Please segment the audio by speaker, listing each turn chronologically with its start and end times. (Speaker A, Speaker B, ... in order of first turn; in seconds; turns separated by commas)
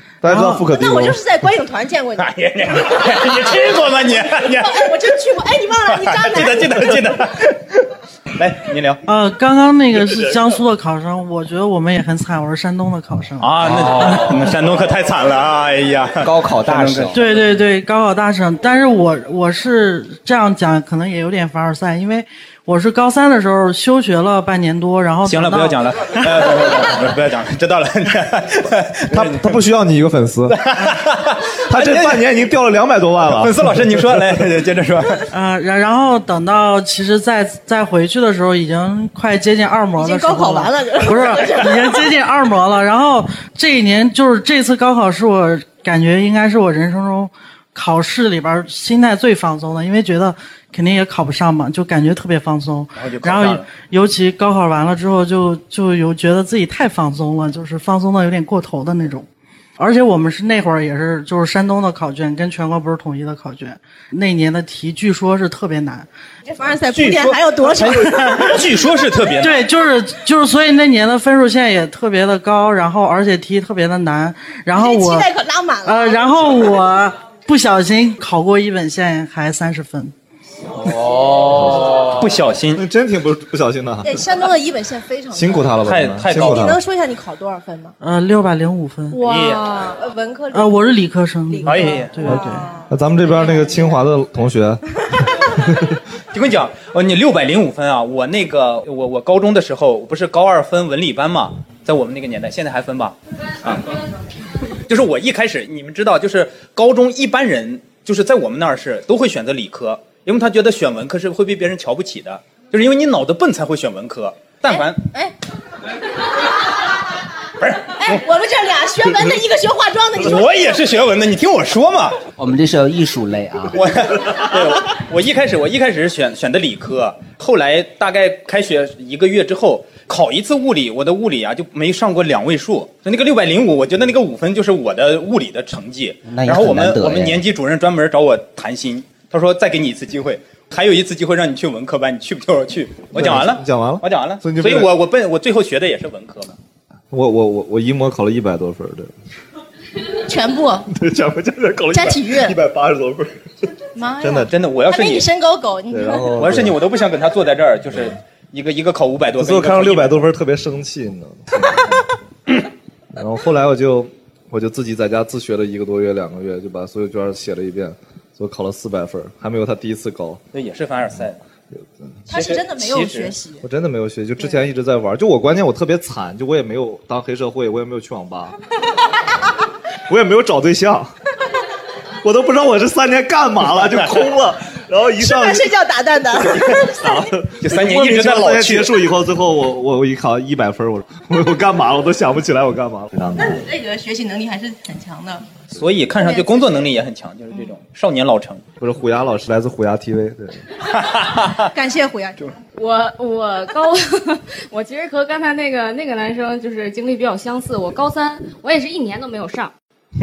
Speaker A: 0.2-1.2, Speaker B: 0.3-0.7, Speaker C: 0.7-2.3, Speaker D: 2.2-4.9, Speaker C: 4.5-7.0, Speaker D: 5.9-7.8, Speaker D: 8.3-9.0, Speaker B: 9.1-13.7, Speaker D: 13.4-17.4, Speaker E: 16.2-17.2, Speaker B: 17.1-25.8, Speaker D: 25.2-29.6, Speaker A: 29.1-30.9, Speaker D: 30.5-32.3, Speaker A: 31.7-34.4, Speaker D: 33.3-35.2, Speaker B: 35.3-59.2, Speaker C: 40.0-42.0, Speaker D: 53.0-53.7, Speaker B: 59.8-66.1, Speaker C: 66.5-68.6, Speaker D: 66.9-69.7, Speaker B: 69.4-75.3, Speaker C: 74.7-76.7, Speaker B: 75.8-80.1, Speaker D: 80.9-82.8, Speaker A: 81.4-82.2, Speaker A: 82.8-84.2, Speaker C: 84.0-85.7, Speaker A: 85.3-86.8, Speaker D: 85.8-86.7, Speaker C: 86.3-87.9, Speaker B: 88.0-89.2, Speaker C: 89.1-90.8, Speaker D: 89.2-89.8, Speaker B: 90.5-92.8, Speaker C: 91.5-94.0, Speaker D: 91.6-92.2, Speaker A: 92.2-94.8, Speaker A: 95.4-96.0, Speaker D: 96.3-103.8, Speaker D: 104.9-115.0, Speaker C: 114.7-115.3, Speaker D: 117.6-118.2, Speaker C: 118.0-120.7, Speaker D: 120.2-122.2, Speaker E: 122.4-123.9, Speaker D: 123.7-146.6, Speaker E: 136.2-137.4, Speaker A: 143.1-144.9, Speaker A: 147.1-149.1, Speaker C: 150.3-150.9, Speaker A: 150.9-153.4, Speaker C: 151.9-152.6, Speaker C: 153.9-156.4, Speaker A: 154.2-154.5, Speaker D: 154.5-155.3, Speaker A: 155.9-156.8, Speaker D: 156.3-160.3, Speaker A: 159.4-162.0, Speaker A: 163.2-170.4, Speaker D: 170.5-171.4, Speaker C: 172.3-173.6, Speaker D: 172.3-173.3, Speaker A: 173.6-178.6, Speaker A: 180.1-181.1, Speaker A: 182.2-185.7, Speaker C: 185.2-187.1, Speaker A: 186.5-193.7, Speaker D: 187.6-188.9, Speaker C: 193.3-195.4, Speaker D: 195.7-198.6, Speaker C: 196.2-196.8, Speaker A: 198.8-200.6, Speaker D: 201.0-201.6, Speaker C: 201.7-202.5, Speaker F: 202.8-209.7